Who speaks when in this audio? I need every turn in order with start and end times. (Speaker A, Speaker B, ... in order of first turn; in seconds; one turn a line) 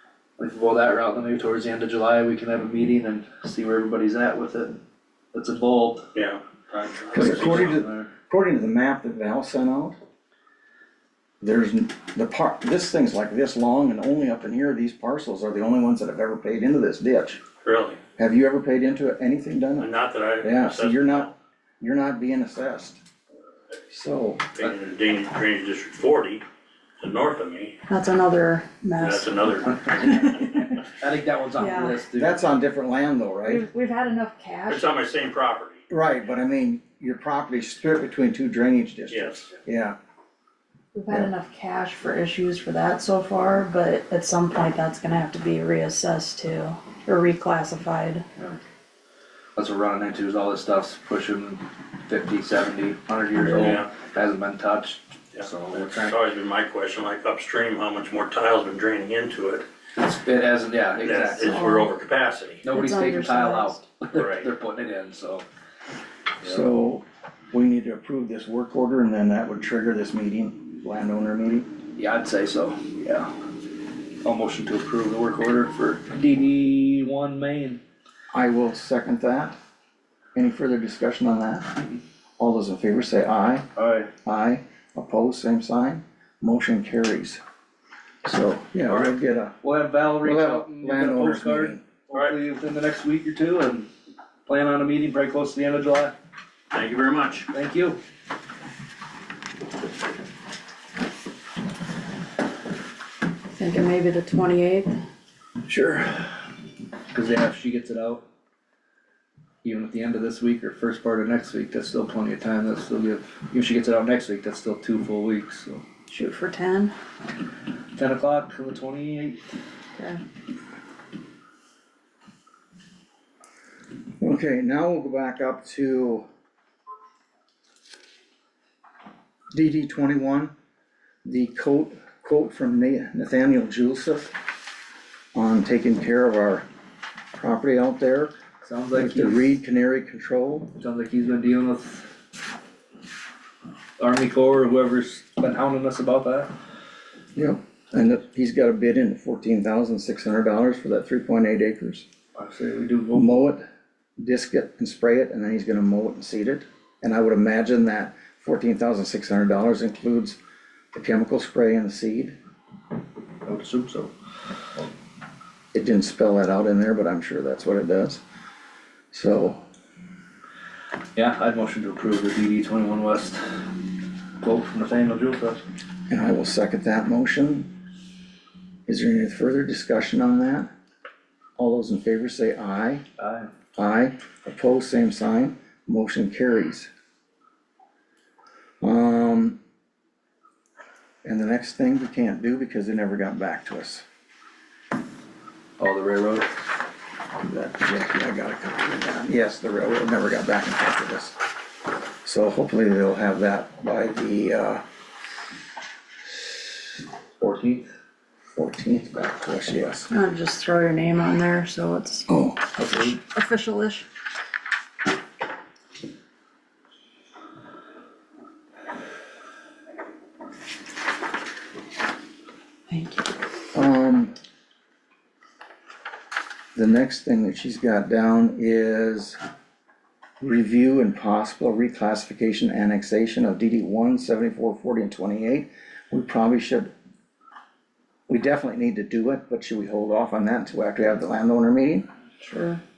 Speaker A: 0.4-4.8
Speaker A: 5.3-6.1
Speaker B: 6.1-7.7
Speaker C: 7.1-10.0
Speaker A: 7.1-8.1
Speaker C: 11.4-17.4
Speaker B: 17.6-18.0
Speaker C: 18.2-19.9
Speaker B: 19.8-21.3
Speaker C: 20.4-21.3
Speaker C: 21.8-23.0
Speaker C: 23.9-24.5
Speaker B: 24.6-26.4
Speaker B: 27.0-27.8
Speaker D: 27.9-29.3
Speaker B: 29.0-30.0
Speaker A: 29.8-32.4
Speaker D: 30.0-30.7
Speaker D: 31.6-32.0
Speaker C: 32.1-33.6
Speaker D: 33.4-34.9
Speaker B: 34.7-35.8
Speaker C: 35.9-40.0
Speaker B: 39.1-39.5
Speaker D: 40.9-48.2
Speaker A: 49.5-56.1
Speaker D: 53.5-53.8
Speaker B: 53.5-53.9
Speaker B: 55.3-59.6
Speaker A: 60.0-61.5
Speaker B: 61.0-62.6
Speaker D: 61.1-61.9
Speaker A: 62.6-65.4
Speaker D: 62.7-64.0
Speaker B: 64.1-64.5
Speaker C: 66.4-71.7
Speaker A: 72.0-73.3
Speaker A: 74.2-77.8
Speaker C: 78.3-79.5
Speaker C: 80.3-81.8
Speaker C: 82.4-83.7
Speaker A: 83.8-84.1
Speaker C: 84.2-87.4
Speaker C: 88.2-89.5
Speaker A: 88.9-93.9
Speaker C: 90.2-91.8
Speaker A: 94.5-96.1
Speaker B: 96.7-97.5
Speaker A: 97.5-98.0
Speaker D: 103.5-105.0
Speaker A: 105.6-106.4
Speaker A: 107.1-108.2
Speaker A: 109.6-115.8
Speaker D: 116.1-116.9
Speaker A: 117.9-119.4
Speaker D: 120.0-120.2
Speaker C: 124.2-126.2
Speaker C: 129.5-130.5
Speaker C: 131.2-134.3
Speaker C: 135.3-136.7
Speaker C: 137.3-138.3
Speaker A: 138.6-139.5
Speaker C: 138.9-140.7
Speaker A: 140.8-142.1
Speaker A: 144.0-146.5
Speaker C: 147.3-152.1
Speaker A: 152.3-153.5
Speaker C: 153.1-153.6
Speaker C: 154.2-160.4
Speaker C: 160.9-162.3
Speaker A: 163.4-164.1
Speaker C: 165.7-168.2
Speaker C: 169.1-169.6
Speaker A: 171.1-173.6
Speaker A: 174.4-175.6
Speaker C: 176.1-177.7
Speaker C: 178.9-180.7
Speaker C: 181.6-183.0
Speaker A: 183.2-183.5
Speaker C: 183.8-186.9
Speaker C: 188.8-189.6
Speaker C: 191.2-194.0
Speaker A: 195.8-196.5
Speaker C: 197.4-201.3
Speaker C: 202.2-204.8
Speaker A: 207.4-207.9
Speaker C: 208.5-210.1
Speaker D: 210.1-212.3
Speaker C: 212.3-213.1
Speaker A: 212.8-213.2
Speaker D: 213.2-214.1
Speaker D: 222.9-223.4
Speaker C: 223.7-224.3
Speaker C: 226.7-229.4
Speaker C: 230.4-236.9
Speaker C: 238.3-242.1
Speaker D: 242.4-242.8